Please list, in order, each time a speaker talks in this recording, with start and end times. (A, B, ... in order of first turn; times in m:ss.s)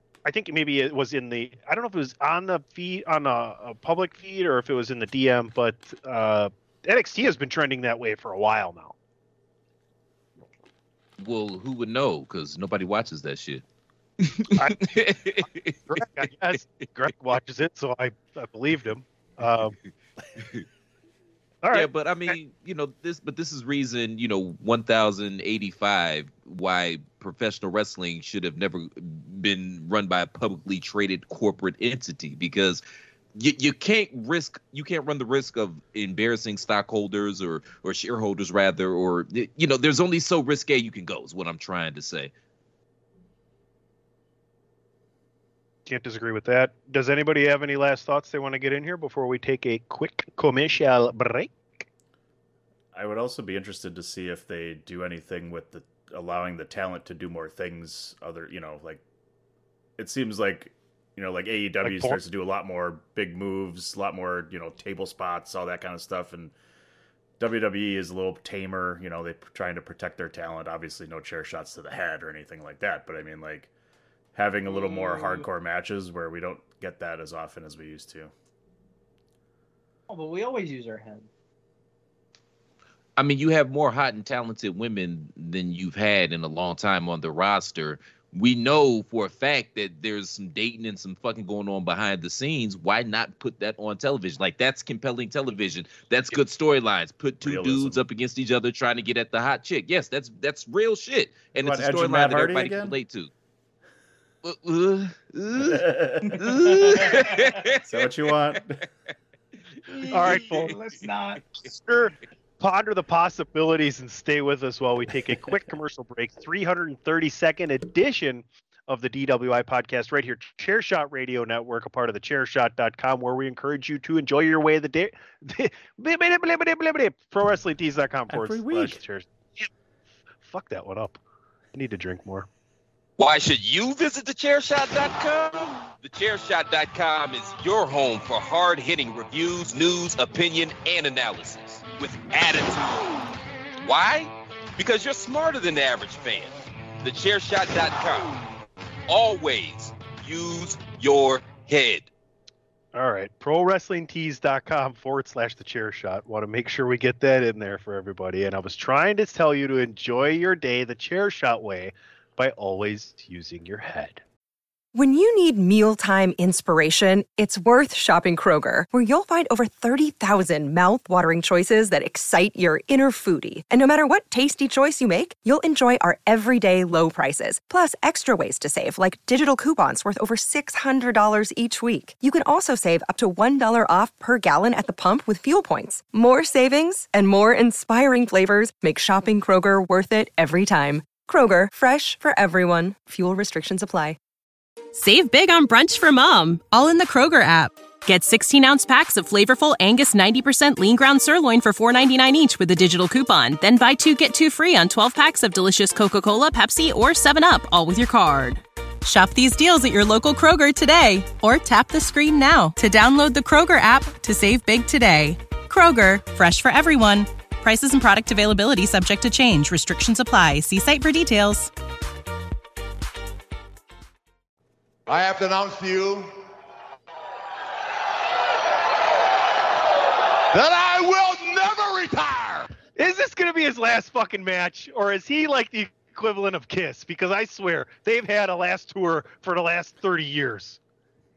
0:00.2-0:08.9 A
0:11.2-0:13.6 B
0:14.2-0:16.0 B
0:14.6-0:19.7 A
0:20.4-0:20.6 B
0:21.6-0:22.3 A
0:21.7-0:32.8 B
0:33.3-0:42.3 B
0:45.8-0:51.5 A
0:52.9-0:59.0 C
1:00.0-1:06.5 C
1:01.8-1:02.2 A
1:07.4-1:13.7 C
1:14.3-1:18.3 C
1:14.7-1:15.5 D
1:20.1-1:21.2 D
1:23.2-1:43.3 B
1:37.4-1:38.0 C
1:41.6-1:43.0 C
1:44.4-1:48.1 B
1:45.6-1:48.8 C
1:46.2-1:47.6 D
1:49.9-1:51.4 D
1:50.1-1:50.7 A
1:51.6-2:09.7 A
2:08.3-2:09.0 C
2:10.4-2:11.2 A
2:11.7-2:12.5 A
2:13.2-2:23.1 B
2:23.8-2:28.4 B
2:29.1-2:32.1 B
2:32.9-2:44.2 A
2:44.9-3:14.2 E
3:14.9-3:41.7 F
3:45.1-3:46.2 G
3:50.5-3:52.7 G
3:53.0-4:00.8 A